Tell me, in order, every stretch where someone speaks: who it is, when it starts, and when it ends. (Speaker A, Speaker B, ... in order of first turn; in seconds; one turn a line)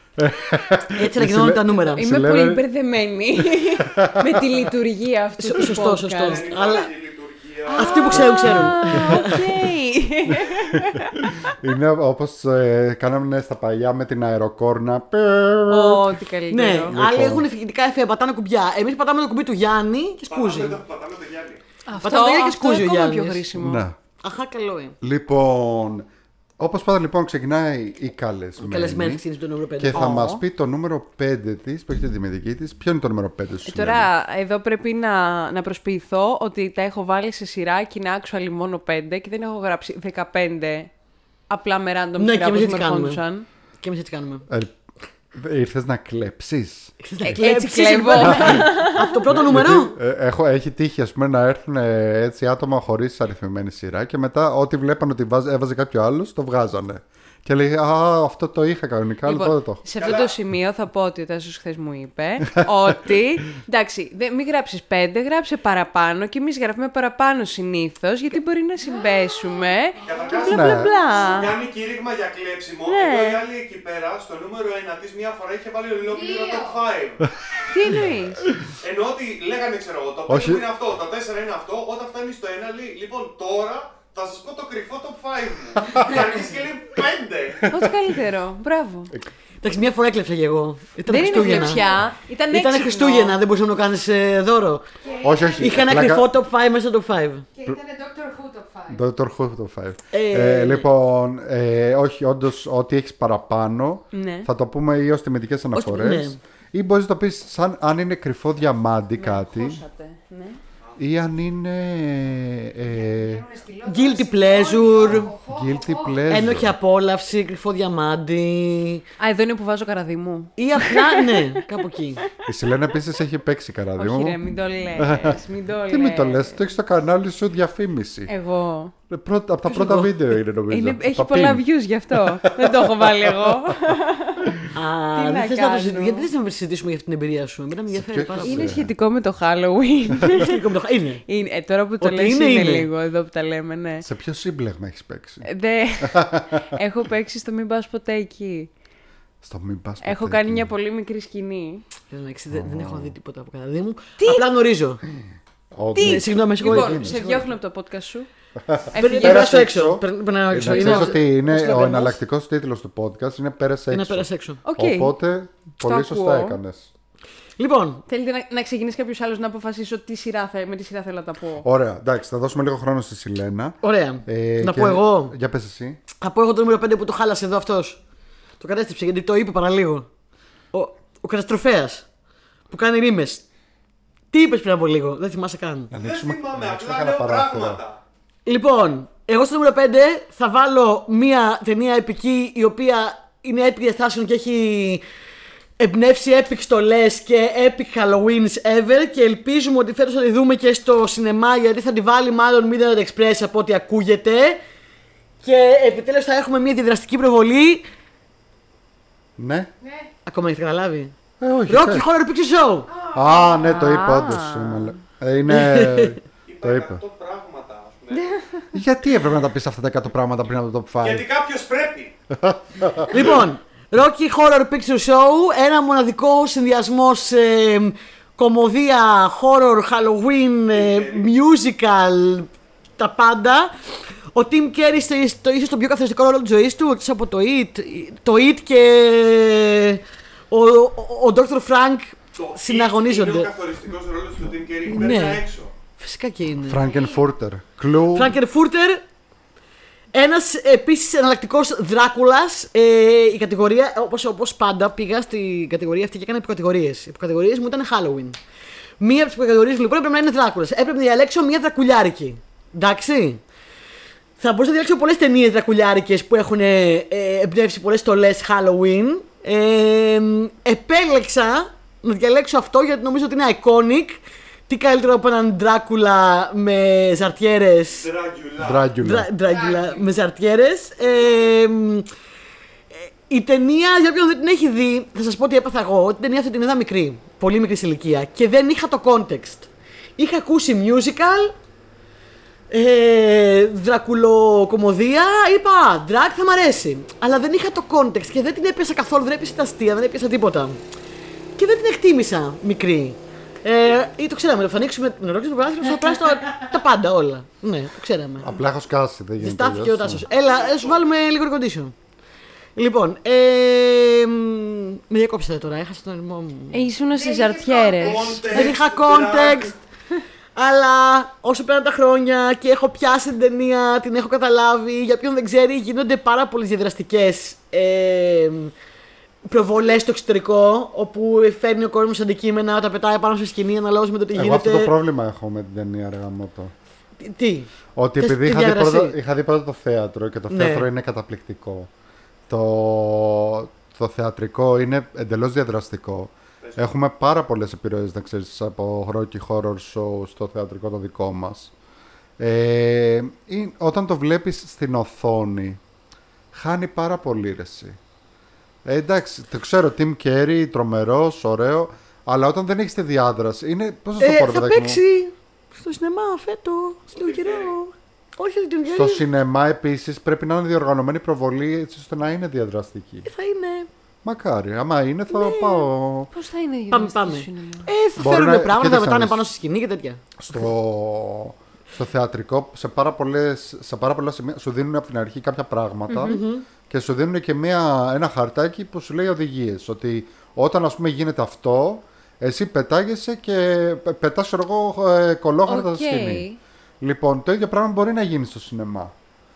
Speaker A: 0.2-2.6
Speaker B: 0.9-2.1
Speaker C: 1.9-6.6
Speaker A: 3.7-4.6
Speaker B: 5.4-6.9
Speaker D: 6.2-8.3
Speaker B: 7.7-9.4
Speaker C: 7.7-11.5
Speaker A: 8.6-9.5
Speaker A: 10.8-15.9
Speaker C: 15.7-17.0
Speaker B: 15.9-20.8
Speaker A: 16.9-17.5
Speaker D: 20.3-21.6
Speaker C: 21.9-23.9
Speaker B: 22.0-23.5
Speaker A: 23.6-24.0
Speaker B: 24.2-25.0
Speaker A: 25.0-26.1
Speaker A: 26.6-29.2
Speaker B: 28.6-30.1
Speaker A: 29.8-34.1
Speaker C: 29.9-30.4
Speaker C: 33.7-40.9
Speaker C: 41.5-43.5
Speaker B: 42.2-43.2
Speaker B: 43.8-44.5
Speaker A: 44.5-44.8
Speaker A: 45.3-46.9
Speaker B: 47.0-50.0
Speaker C: 47.2-49.2
Speaker A: 48.3-48.6
Speaker A: 49.3-59.8
Speaker C: 59.2-71.5
Speaker D: 60.0-60.3
Speaker E: 70.0-70.6
Speaker D: 70.0-77.3
Speaker A: 70.5-70.9
Speaker C: 72.9-73.4
Speaker E: 76.0-76.8
Speaker C: 77.7-78.4
Speaker A: 77.8-78.7
Speaker D: 78.7-87.7
Speaker A: 80.3-80.6
Speaker A: 87.6-88.0
Speaker C: 87.7-89.1
Speaker B: 89.6-91.9
Speaker C: 91.1-93.4
Speaker B: 92.5-94.9
Speaker E: 95.0-95.9
Speaker A: 95.2-96.3
Speaker B: 95.6-97.5
Speaker E: 97.6-99.0
Speaker A: 98.9-109.8
Speaker B: 100.1-100.9
Speaker C: 104.1-104.5
Speaker B: 105.7-106.4
Speaker C: 109.2-110.6
Speaker A: 111.0-113.4
Speaker E: 112.9-116.4
Speaker B: 113.8-115.3
Speaker A: 115.0-116.8
Speaker B: 116.3-119.0
Speaker C: 119.2-121.5
Speaker B: 120.6-122.2
Speaker A: 122.5-124.4
Speaker C: 124.0-126.6
Speaker A: 125.0-128.3
Speaker C: 128.3-128.9
Speaker A: 129.1-133.7
Speaker B: 129.7-130.2
Speaker C: 130.7-136.3
Speaker B: 134.7-138.8
Speaker A: 137.9-138.9
Speaker C: 138.4-140.6
Speaker B: 140.3-141.2
Speaker C: 141.3-144.1
Speaker B: 142.0-142.9
Speaker A: 144.0-145.5
Speaker C: 145.4-148.7
Speaker A: 146.0-146.8
Speaker A: 149.4-150.7
Speaker C: 150.0-151.8
Speaker B: 152.1-155.0
Speaker A: 152.5-153.1
Speaker C: 154.2-154.4
Speaker A: 155.7-157.4
Speaker C: 155.9-158.3
Speaker B: 156.0-157.5
Speaker A: 158.7-166.9
Speaker C: 158.9-159.7
Speaker B: 158.9-162.2
Speaker C: 160.6-161.2
Speaker B: 163.9-164.6
Speaker C: 164.6-165.2
Speaker C: 165.8-166.6
Speaker B: 167.6-168.0
Speaker C: 168.1-171.7
Speaker A: 171.6-176.0
Speaker B: 173.8-175.3
Speaker B: 176.2-178.0
Speaker B: 178.6-180.1
Speaker B: 180.7-182.1
Speaker B: 182.7-183.4
Speaker B: 184.3-185.9
Speaker A: 185.9-187.8
Speaker D: 186.0-188.0
Speaker B: 188.5-195.0
Speaker B: 195.8-204.6
Speaker B: 205.4-207.9
Speaker A: 209.4-209.7
Speaker E: 209.8-210.1
Speaker B: 210.3-211.1
Speaker A: 211.4-212.1
Speaker B: 211.7-212.9
Speaker E: 212.9-213.8
Speaker A: 213.1-217.0
Speaker C: 213.4-215.0
Speaker B: 215.5-216.2
Speaker D: 216.5-218.4
Speaker C: 218.1-218.7
Speaker A: 218.7-221.2
Speaker D: 221.0-222.1
Speaker A: 222.3-223.3
Speaker B: 223.1-233.7
Speaker D: 230.7-231.3
Speaker B: 234.3-243.5
Speaker D: 242.3-245.7
Speaker B: 244.9-245.4
Speaker B: 246.0-246.8
Speaker A: 246.7-248.4
Speaker E: 246.8-247.2
Speaker B: 248.1-249.0
Speaker B: 250.1-258.4
Speaker B: 259.0-263.4
Speaker B: 264.4-278.1
Speaker D: 277.9-278.9
Speaker A: 278.6-279.3
Speaker B: 279.0-282.1
Speaker E: 279.4-280.1
Speaker B: 282.9-291.6
Speaker B: 292.7-300.8
Speaker B: 301.6-308.6
Speaker A: 308.4-310.3
Speaker B: 309.4-311.9
Speaker D: 310.3-311.0
Speaker B: 312.8-316.9
Speaker C: 316.7-318.7
Speaker E: 317.1-318.5
Speaker D: 318.0-319.8
Speaker B: 318.5-319.8
Speaker B: 320.6-328.7
Speaker B: 329.5-334.9
Speaker A: 334.3-336.7
Speaker B: 337.2-339.2
Speaker A: 338.0-341.9
Speaker B: 340.5-340.9
Speaker A: 342.5-351.7
Speaker D: 346.6-346.9
Speaker A: 352.4-355.8
Speaker A: 356.5-358.0
Speaker A: 358.9-365.0
Speaker B: 364.2-369.2
Speaker D: 367.2-367.8
Speaker A: 368.9-373.3
Speaker B: 373.3-373.9
Speaker A: 374.2-376.3
Speaker B: 375.3-375.9
Speaker C: 376.3-377.9
Speaker B: 376.9-380.2
Speaker A: 378.2-379.4
Speaker A: 380.4-396.5
Speaker C: 386.1-386.4
Speaker B: 386.2-386.7
Speaker C: 395.7-396.6
Speaker A: 397.0-399.1